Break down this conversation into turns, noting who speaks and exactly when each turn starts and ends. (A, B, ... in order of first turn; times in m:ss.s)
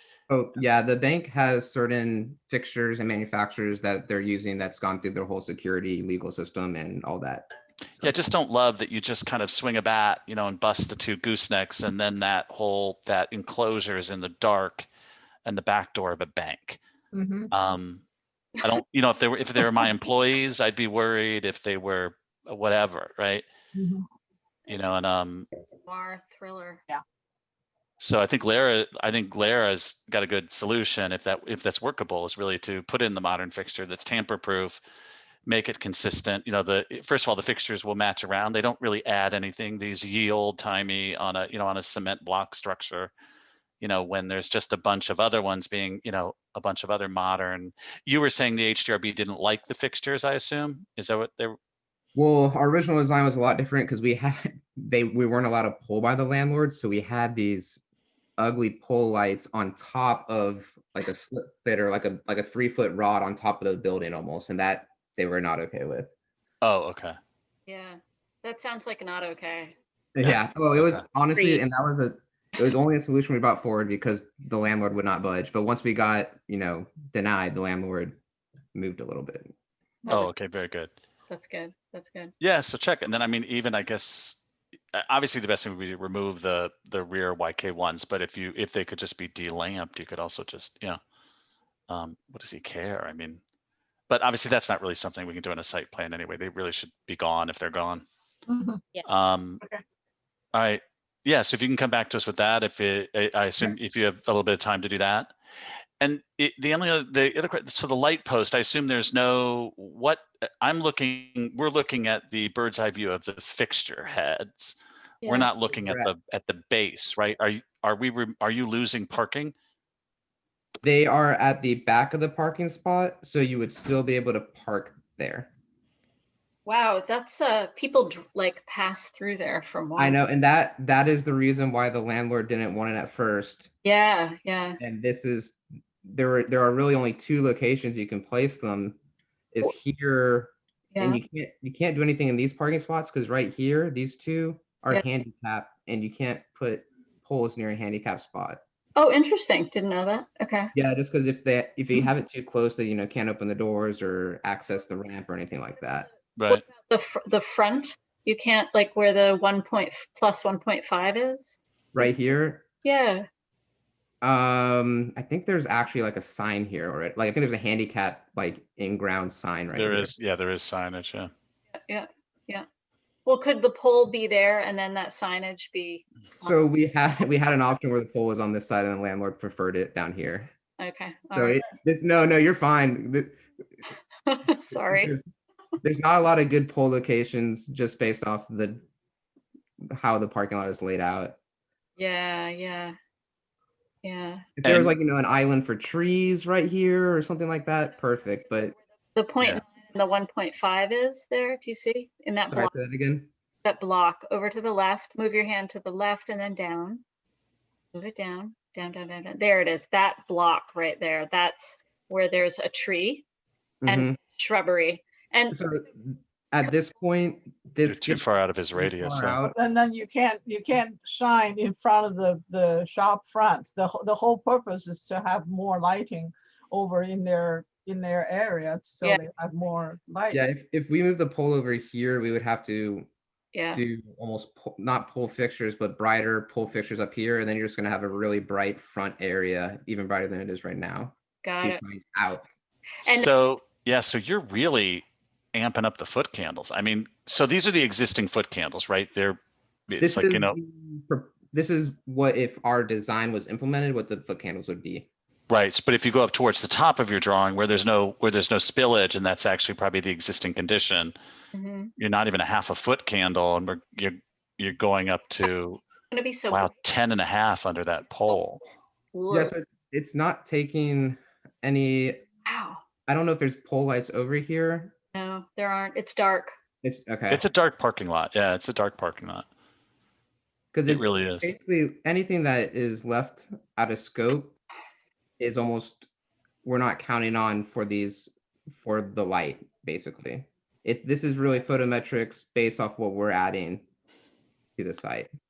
0:00.3-0:07.5 A
0:08.0-0:14.9 B
0:15.4-0:16.8 B
0:17.1-0:17.5 C
0:17.5-0:18.0 B
0:18.6-0:23.4 B
0:23.7-0:24.0 C
0:24.7-0:25.5 B
0:25.8-0:26.8 D
0:28.0-0:34.8 B
0:35.4-0:43.1 B
0:43.8-0:51.6 B
0:52.2-0:57.8 A
0:58.4-1:06.1 A
1:06.6-1:07.2 B
1:07.7-1:09.7 D
1:10.1-1:18.2 A
1:10.2-1:11.0 B
1:11.3-1:11.6 D
1:18.7-1:19.5 A
1:20.0-1:20.3 D
1:20.1-1:20.9 B
1:21.3-1:22.3 D
1:22.4-1:24.4 B
1:24.9-1:31.0 B
1:31.9-1:33.4 B
1:34.1-1:38.0 B
1:38.5-1:38.8 C
1:39.0-1:39.6 B
1:40.5-1:45.3 B
1:46.0-1:59.5 B
1:55.2-1:55.5 D
1:55.7-1:56.1 A
2:00.8-2:05.5 A
2:06.6-2:10.2 D
2:10.0-2:13.7 A
2:13.8-2:14.8 D
2:14.8-2:19.0 A
2:19.5-2:28.6 A
2:20.9-2:21.2 D
2:29.0-2:30.7 D
2:30.7-2:36.1 A
2:36.4-2:36.6 B
2:36.5-2:41.6 D
2:41.9-2:42.6 A
2:42.8-2:43.2 D
2:44.2-2:50.1 A
2:49.7-2:51.3 B
2:51.8-2:52.6 D
2:53.2-2:56.6 D
2:56.4-3:00.5 A
3:00.8-3:01.6 D
3:01.3-3:03.4 A
3:04.2-3:05.1 D
3:04.7-3:05.2 A
3:05.8-3:08.8 A
3:09.9-3:11.4 A
3:12.0-3:13.0 D
3:14.0-3:14.4 D
3:14.6-3:18.8 A
3:14.6-3:14.9 B
3:19.2-3:22.7 D
3:22.5-3:23.3 A
3:23.6-3:27.0 D
3:27.9-3:33.2 D
3:33.8-3:34.2 A
3:33.8-3:35.6 D
3:35.5-3:39.6 A
3:37.8-3:39.4 B
3:39.4-3:50.4 C
3:50.3-3:53.1 A
3:53.5-3:53.8 D
3:53.7-4:02.5 A
4:01.4-4:01.8 D
4:03.0-4:03.3 D
4:03.1-4:10.5 B
4:10.0-4:15.1 A
4:15.5-4:21.1 B
4:21.5-4:21.9 D
4:22.0-4:25.8 B
4:26.1-4:26.7 D
4:26.5-4:28.6 B
4:29.1-4:29.5 D
4:29.3-4:32.2 A
4:32.4-4:32.8 D
4:33.1-4:34.9 A
4:35.1-4:36.6 D
4:36.8-4:37.4 A
4:37.3-4:39.4 B
4:40.7-4:44.5 A
4:40.9-4:41.5 B
4:45.4-4:46.1 A
4:46.6-4:53.8 A
4:54.8-4:55.3 A